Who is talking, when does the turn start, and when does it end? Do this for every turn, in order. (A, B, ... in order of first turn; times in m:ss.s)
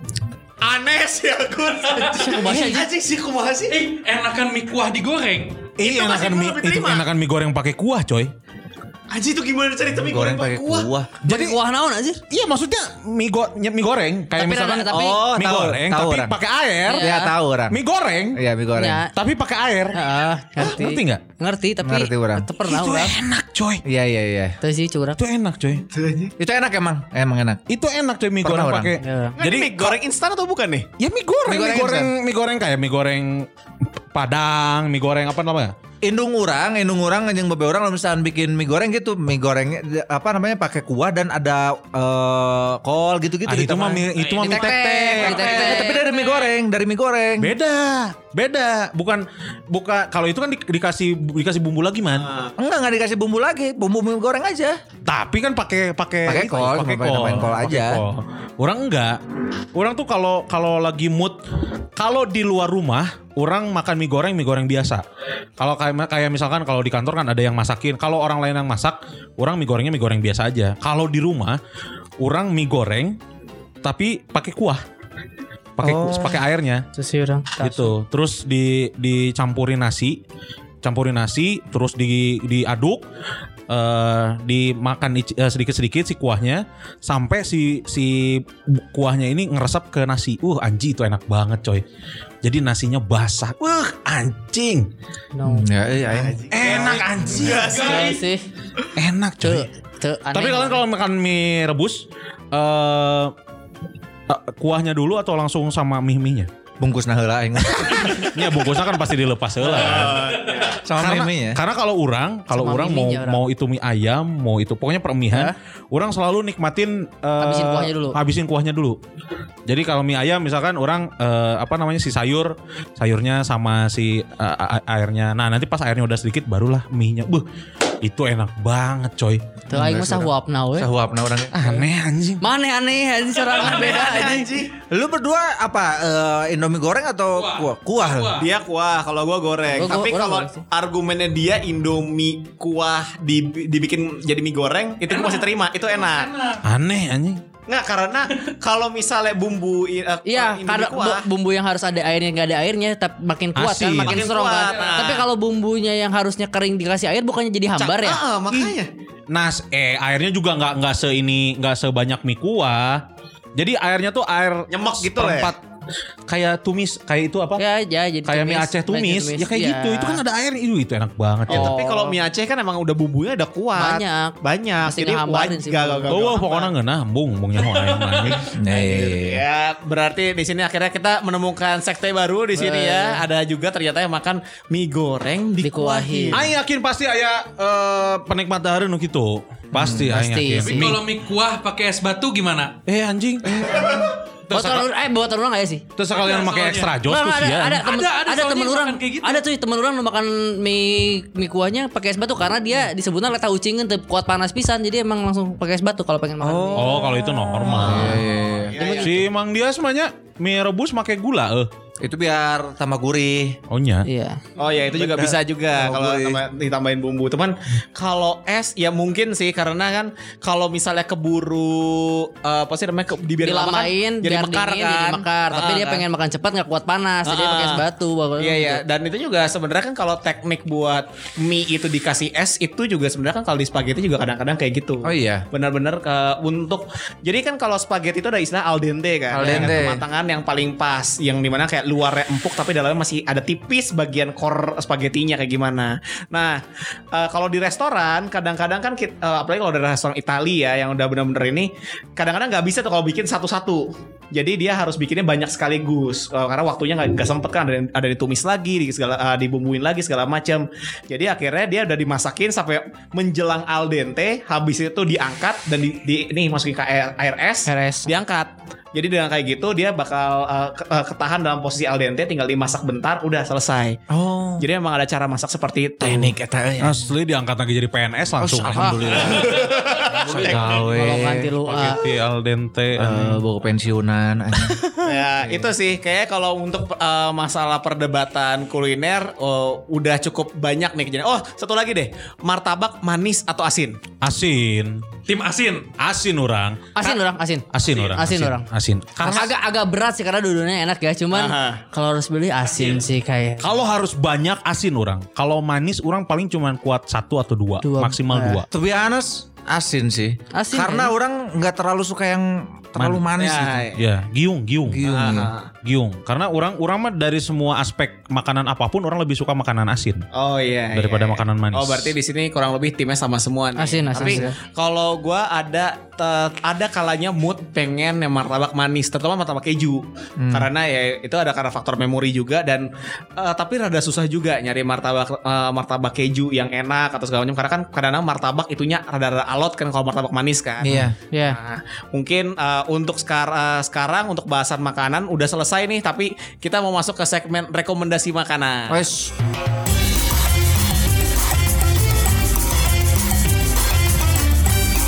0:00.6-0:03.7 A
0:01.9-0:02.3 B
0:02.1-0:02.8 C
0:03.7-0:05.7 B
0:05.8-0:08.3 D
0:05.8-0:07.0 A
0:09.1-0:10.9 A
0:09.9-0:11.1 E
0:11.2-0:11.6 D
0:11.2-0:12.2 C
0:12.3-0:17.1 D
0:14.3-0:15.2 C
0:14.9-0:16.3 E
0:16.8-0:17.3 C
0:17.0-0:17.8 E
0:17.7-0:18.4 D
0:18.3-0:19.0 E
0:18.8-0:19.1 C
0:19.1-0:20.0 D
0:19.9-0:23.2 C
0:20.6-0:21.2 D
0:21.8-0:22.4 E
0:22.6-0:23.8 D
0:23.9-0:24.6 E
0:24.6-0:25.2 C
0:25.2-0:25.8 D
0:26.0-0:27.6 E
0:27.7-0:30.0 D
0:28.4-0:28.9 E
0:29.0-0:29.4 C
0:29.4-0:30.9 A
0:31.0-0:33.5 D
0:31.4-0:32.1 E
0:34.1-0:35.7 D
0:36.0-0:44.1 E
0:43.4-0:45.6 D
0:44.2-0:46.2 A
0:44.4-0:46.1 C
0:45.1-0:47.5 E
0:47.4-0:52.3 D
0:52.2-0:52.5 A
0:52.6-0:54.8 E
0:55.0-0:59.2 D
0:56.2-0:58.0 E
0:59.7-1:01.4 D
1:02.0-1:05.0 D
1:05.6-1:11.6 D
1:12.2-1:13.2 D
1:13.8-1:14.8 D
1:15.8-1:16.8 D
1:15.8-1:16.4 E
1:16.9-1:17.9 C
1:17.6-1:20.2 D
1:20.8-1:23.0 D
1:23.7-1:31.8 D
1:32.4-1:34.9 D
1:35.3-1:35.7 C
1:35.4-1:36.4 E
1:36.0-1:38.2 A
1:36.5-1:37.8 D
1:37.5-1:38.2 B
1:37.6-1:38.4 C
1:39.0-1:39.7 D
1:39.4-1:40.8 C
1:40.3-1:43.3 D
1:44.3-1:46.5 D
1:46.8-1:48.4 E
1:48.0-1:50.3 D
1:49.6-1:50.8 A
1:50.8-1:51.6 E
1:51.0-1:59.0 D
1:52.5-1:53.4 C
1:57.4-1:58.2 C
1:59.7-2:07.4 D
2:08.0-2:09.4 D
2:09.7-2:10.9 C
2:09.7-2:11.7 E
2:11.5-2:12.4 D
2:12.4-2:14.5 C
2:13.5-2:14.0 B
2:13.6-2:14.7 A
2:14.9-2:18.4 E
2:17.3-2:18.5 B
2:18.4-2:26.3 A
2:19.7-2:20.6 C
2:25.1-2:26.6 B
2:26.6-2:27.4 D
2:27.7-2:31.2 A
2:30.2-2:38.2 C
2:33.5-2:34.3 D
2:34.0-2:35.3 A
2:34.6-2:35.0 B
2:37.8-2:38.9 A
2:39.3-2:43.0 D
2:43.6-2:45.6 D
2:44.7-2:45.5 A
2:46.3-2:47.6 D
2:47.6-2:50.2 C
2:48.2-2:51.7 D
2:51.5-2:52.2 C
2:51.5-2:56.7 A
2:53.8-2:56.4 C
2:56.1-2:58.5 D
2:57.6-2:58.5 B
2:58.5-2:59.4 E
2:58.7-3:06.5 A
3:02.5-3:03.2 C
3:05.6-3:06.4 C
3:06.3-3:11.0 D
3:09.7-3:10.1 E
3:10.1-3:10.9 C
3:10.6-3:12.8 B
3:12.9-3:14.9 D
3:14.5-3:15.8 C
3:16.0-3:17.9 D
3:16.1-3:16.9 B
3:17.0-3:28.2 C
3:17.8-3:19.4 B
3:26.4-3:28.8 E
3:26.8-3:28.2 D
3:28.5-3:29.2 A
3:28.8-3:29.2 C
3:29.0-3:31.7 D
3:32.0-3:33.6 E
3:33.7-3:34.1 D
3:34.0-3:34.4 C
3:34.6-3:46.0 A
3:34.9-3:36.4 E
3:43.4-3:48.8 C
3:47.2-3:47.8 A
3:48.4-4:34.0 A
3:55.0-3:55.4 E
3:59.3-4:00.0 E
4:27.6-4:28.1 C
4:34.1-4:34.7 E
4:34.6-4:36.3 A
4:36.0-4:37.0 E
4:36.8-4:39.2 D
4:38.4-4:41.5 E
4:39.2-4:40.7 A
4:40.3-4:43.4 D
4:40.8-4:42.0 C
4:43.0-4:44.8 E
4:45.0-4:54.0 A
4:54.2-4:55.0 D
4:55.3-4:55.9 B
4:56.0-4:56.9 D
4:56.9-4:58.7 C
4:57.7-4:59.5 D
4:59.2-5:03.7 C
5:01.3-5:01.8 A
5:03.6-5:08.7 D
5:07.8-5:08.6 C
5:08.7-5:13.9 E
5:10.5-5:11.1 C
5:13.0-5:13.3 D
5:13.4-5:14.0 A
5:13.9-5:15.3 D
5:14.9-5:15.5 E
5:15.0-5:15.7 A
5:15.8-5:20.3 D
5:20.3-5:49.0 A
5:20.9-5:22.1 D
5:23.8-5:24.6 C
5:24.1-5:24.5 E
5:30.4-5:30.7 E
5:40.8-5:41.1 E
5:41.3-5:41.6 C
5:48.9-5:49.3 E